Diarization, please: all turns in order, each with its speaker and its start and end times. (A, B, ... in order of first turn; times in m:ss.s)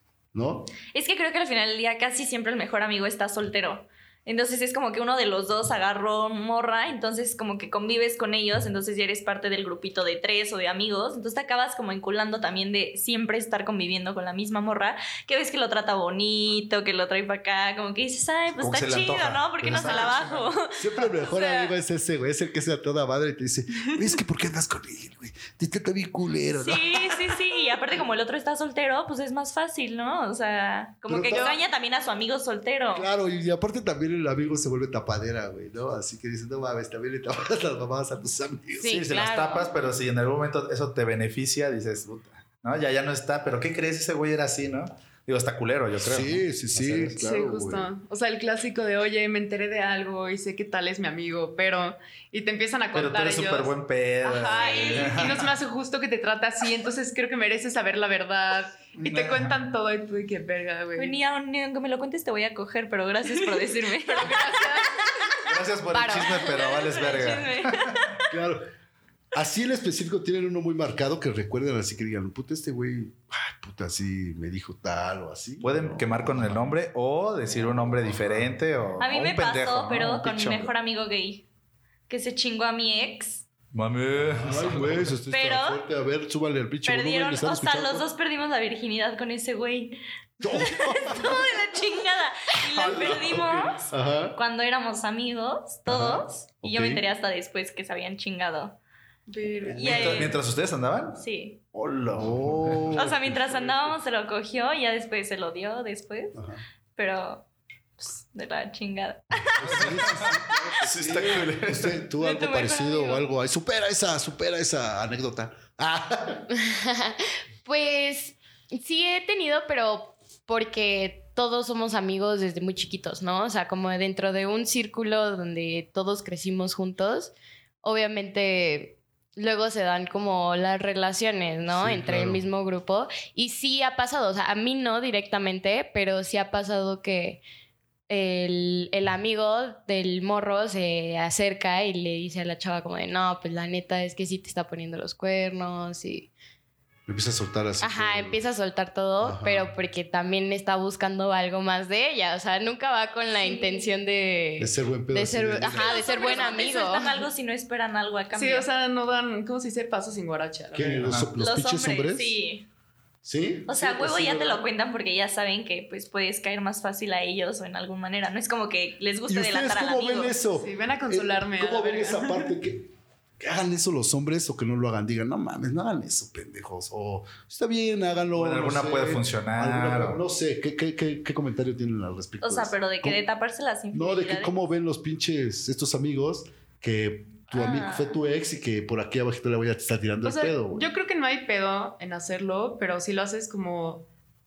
0:00.3-0:00.7 A
0:00.9-0:21.7 B
0:18.6-0:20.1 C
0:19.7-0:20.0 A
0:19.7-0:20.4 D
0:20.8-0:27.5 A
0:26.6-0:33.1 B
0:31.1-0:31.6 A
0:32.9-0:39.0 A
0:38.8-0:39.7 E
0:38.9-0:47.2 C
0:46.0-0:47.9 A
0:47.2-1:01.1 D
0:52.9-0:55.5 C
0:54.5-0:55.3 B
0:59.0-0:59.6 C
1:01.0-1:04.9 B
1:03.2-1:05.5 D
1:05.4-1:08.0 C
1:05.9-1:06.3 E
1:06.3-1:08.2 B
1:08.3-1:08.7 A
1:09.3-1:16.7 A
1:15.6-1:20.7 C
1:17.5-1:18.6 A
1:19.0-1:21.4 B
1:22.1-1:23.4 B
1:23.7-1:25.1 C
1:24.3-1:28.1 A
1:25.3-1:25.8 B
1:26.9-1:38.8 B
1:30.4-1:31.5 A
1:32.8-1:33.7 C
1:33.9-1:34.4 A
1:35.9-1:37.0 A
1:39.3-1:40.4 D
1:39.8-1:40.4 B
1:39.8-1:41.2 C
1:41.2-1:41.6 B
1:41.8-1:43.1 C
1:42.1-1:44.0 A
1:42.9-1:46.4 B
1:46.4-1:46.6 A
1:47.0-1:47.4 B
1:48.0-1:49.9 B
1:49.6-1:56.5 A
1:49.6-1:52.0 C
1:52.2-1:53.2 B
1:56.5-2:17.4 E
2:11.7-2:12.4 A
2:18.1-2:26.3 E
2:27.1-2:28.4 A
2:27.8-2:37.1 E
2:29.2-2:29.7 A
2:34.6-2:36.1 A
2:35.8-2:38.7 B
2:38.3-2:41.2 D
2:40.7-2:42.4 A
2:41.1-2:41.3 C
2:41.4-2:42.7 B
2:43.2-2:44.6 A
2:43.7-2:50.4 B
2:49.3-3:03.2 A
2:50.6-2:52.6 D
2:58.4-3:00.2 C
3:02.4-3:04.5 B
3:03.9-3:10.9 A
3:07.5-3:08.2 B
3:10.2-3:14.1 D